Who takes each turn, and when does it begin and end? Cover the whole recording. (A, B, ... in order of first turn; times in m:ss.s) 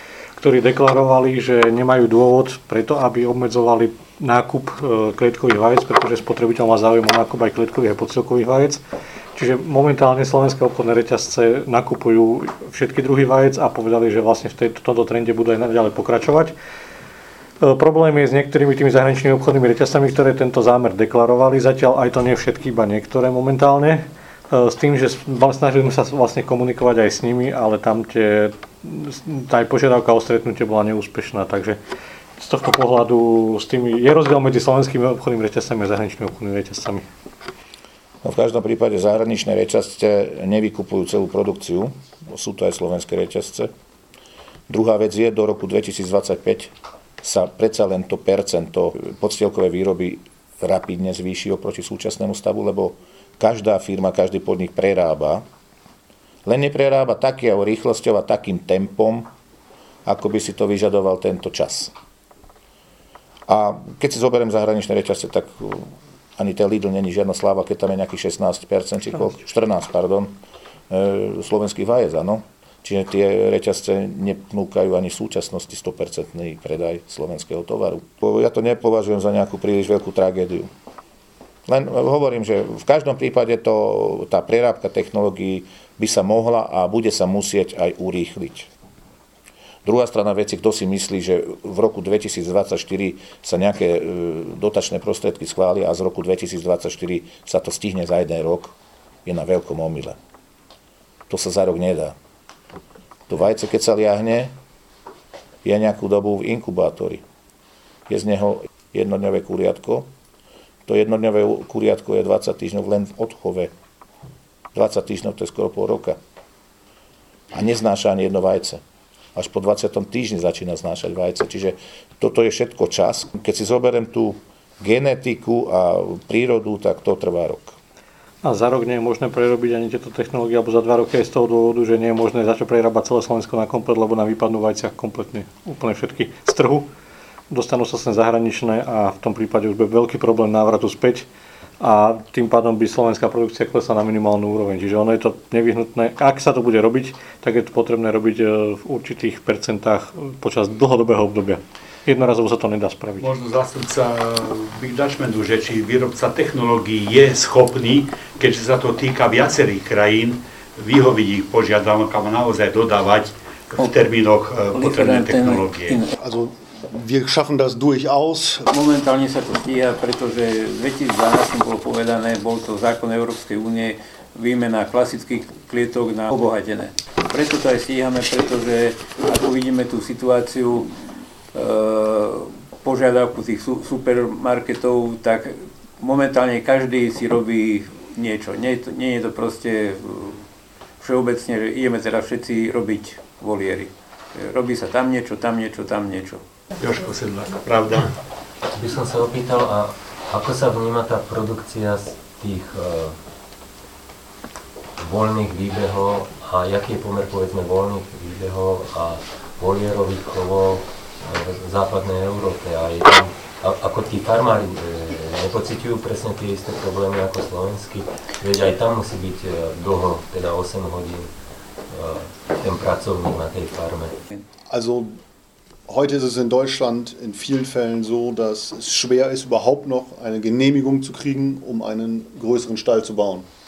0:00.4-0:08.8 A
0:09.4-0:16.5 A
0:17.6-0:31.8 A
0:32.4-0:37.1 A
0:38.2-0:43.7 B
0:44.7-0:55.4 B
0:56.4-0:59.3 B
1:00.0-1:01.9 B
1:03.5-1:10.4 B
1:10.9-1:20.7 B
1:21.7-1:28.7 B
1:29.8-1:40.2 B
1:41.3-1:42.2 B
1:43.3-1:44.5 B
1:45.6-1:47.2 B
1:48.1-1:50.1 B
1:50.9-1:53.7 B
1:54.7-1:56.2 B
1:57.5-1:58.8 B
1:59.4-2:07.8 B
2:08.4-2:16.9 A
2:17.5-2:21.3 A
2:21.8-2:33.3 A
2:33.2-2:46.0 C
2:44.8-2:46.1 D
2:46.2-2:48.7 E
2:48.7-3:01.0 D
3:01.5-3:10.4 D
3:11.0-3:16.4 D
3:16.8-3:18.1 C
3:18.7-3:23.2 F
3:25.0-3:41.3 F
3:41.9-3:44.2 F
3:44.7-3:45.2 E
3:45.9-3:53.5 E